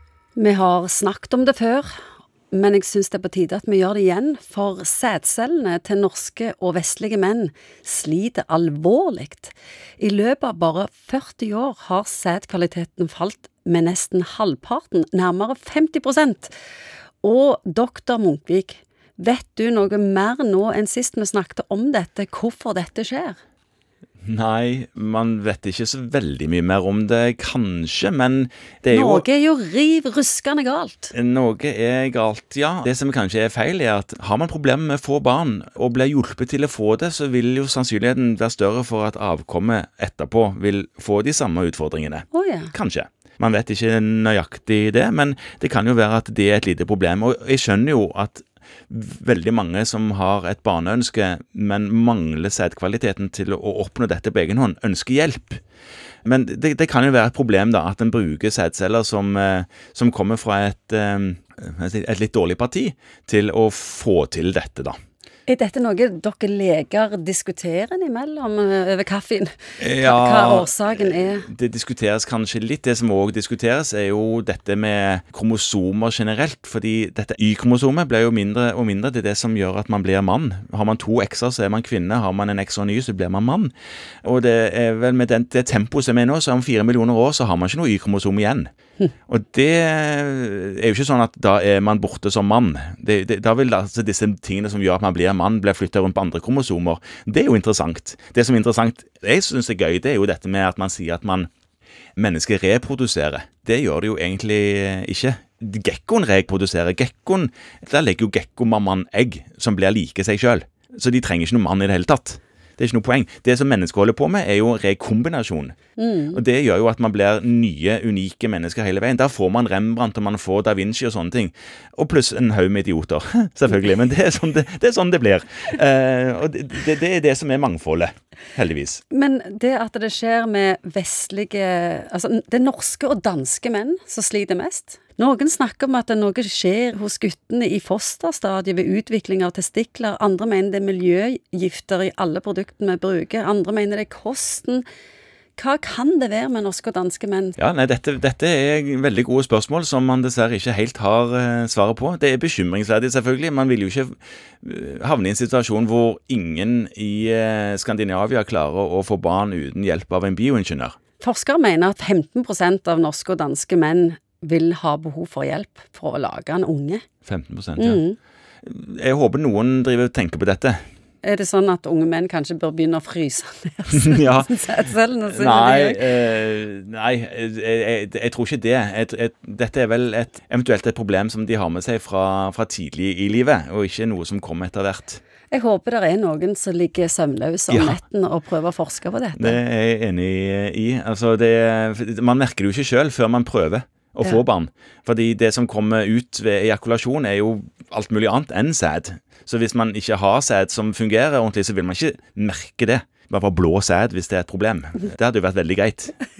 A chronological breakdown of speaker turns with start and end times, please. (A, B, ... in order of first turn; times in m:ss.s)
0:00.4-0:01.9 A
0:02.5-0:16.5 A
0:17.2-0:23.4 A
0:24.2-0:29.2 B
0:28.9-0:31.1 A
0:31.1-0:55.6 B
0:42.3-0:42.7 A
0:56.2-1:05.0 B
1:05.5-1:11.5 A
1:09.8-1:23.7 B
1:24.2-1:28.7 B
1:29.3-1:41.5 B
1:42.2-1:55.8 B
1:56.0-1:56.4 A
1:56.3-2:09.0 B
2:09.1-2:24.8 A
2:25.6-2:27.6 A
2:27.6-2:41.0 B
2:41.2-2:47.0 A
2:47.2-2:48.0 B
2:47.8-2:48.2 A
2:48.6-2:50.8 B
2:51.2-2:56.2 A
2:53.9-2:54.5 B
2:55.2-3:05.2 B
3:05.5-3:09.6 A
3:07.7-3:08.0 B
3:09.3-3:26.2 B